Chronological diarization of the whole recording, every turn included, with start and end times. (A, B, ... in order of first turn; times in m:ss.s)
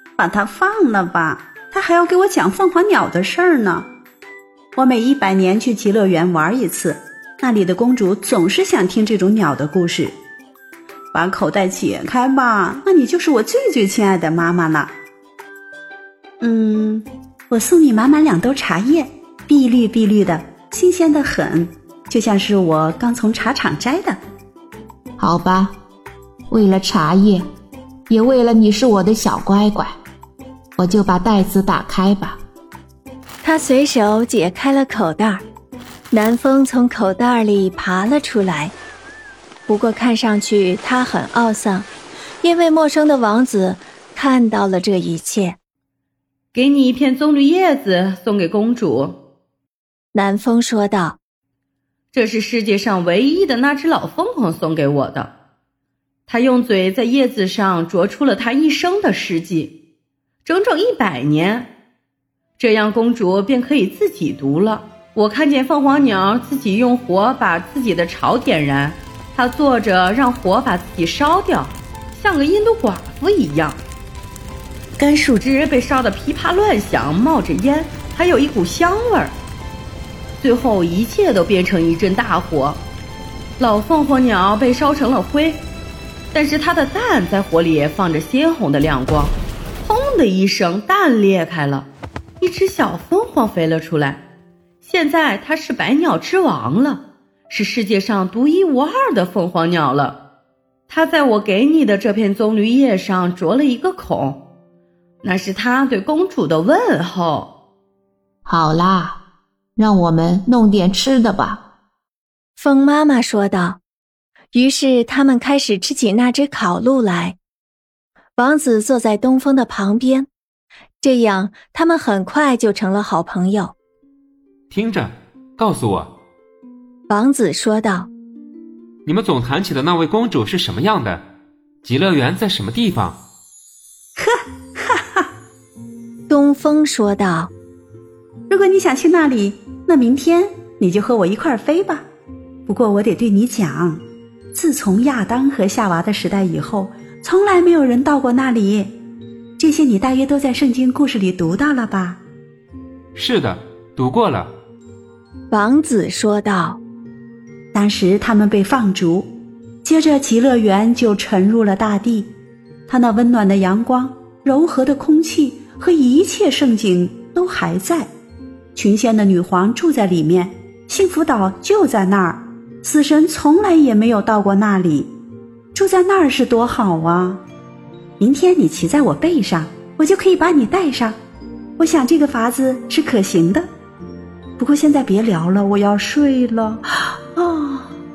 0:00.2-0:03.9 A
0:04.8-0:10.2 A
0:11.1-0:14.9 A
0:16.4-0:24.2 A
0:25.2-0:25.8 B
0:26.5-0:27.5 B
0:28.1-0:30.0 B
0:30.8-0:32.4 B
0:33.4-0:35.4 C
0:36.1-0:38.7 C
0:39.7-0:41.9 C
0:42.4-0:45.6 C
0:46.5-0:49.2 D
0:50.1-0:51.2 C
0:52.1-0:55.3 D
0:56.3-0:59.8 D
1:00.4-1:01.7 D
1:02.6-1:13.8 D
1:15.0-1:19.3 D
1:20.4-1:22.8 D
1:23.6-1:25.6 D
1:26.3-1:31.9 D
1:32.4-1:34.2 D
1:34.8-1:40.2 D
1:40.9-1:44.4 D
1:45.2-1:47.5 D
1:48.4-1:49.2 B
1:49.8-1:51.6 B
1:52.6-1:53.8 C
1:54.5-1:57.4 C
1:58.4-2:00.3 C
2:01.0-2:03.7 C
2:04.7-2:06.2 E
2:07.1-2:08.1 C
2:09.0-2:11.2 E
2:11.8-2:13.2 E
2:14.2-2:15.2 A
2:16.3-2:17.5 C
2:18.5-2:22.1 A
2:22.7-2:24.0 A
2:24.5-2:28.9 A
2:29.6-2:32.2 A
2:33.2-2:34.5 E
2:35.5-2:36.8 C
2:37.7-2:39.3 A
2:39.8-2:42.3 A
2:42.9-2:48.1 A
2:48.8-2:55.1 A
2:55.7-2:57.4 A
2:58.2-3:01.2 A
3:01.8-3:03.7 A
3:04.6-3:07.9 A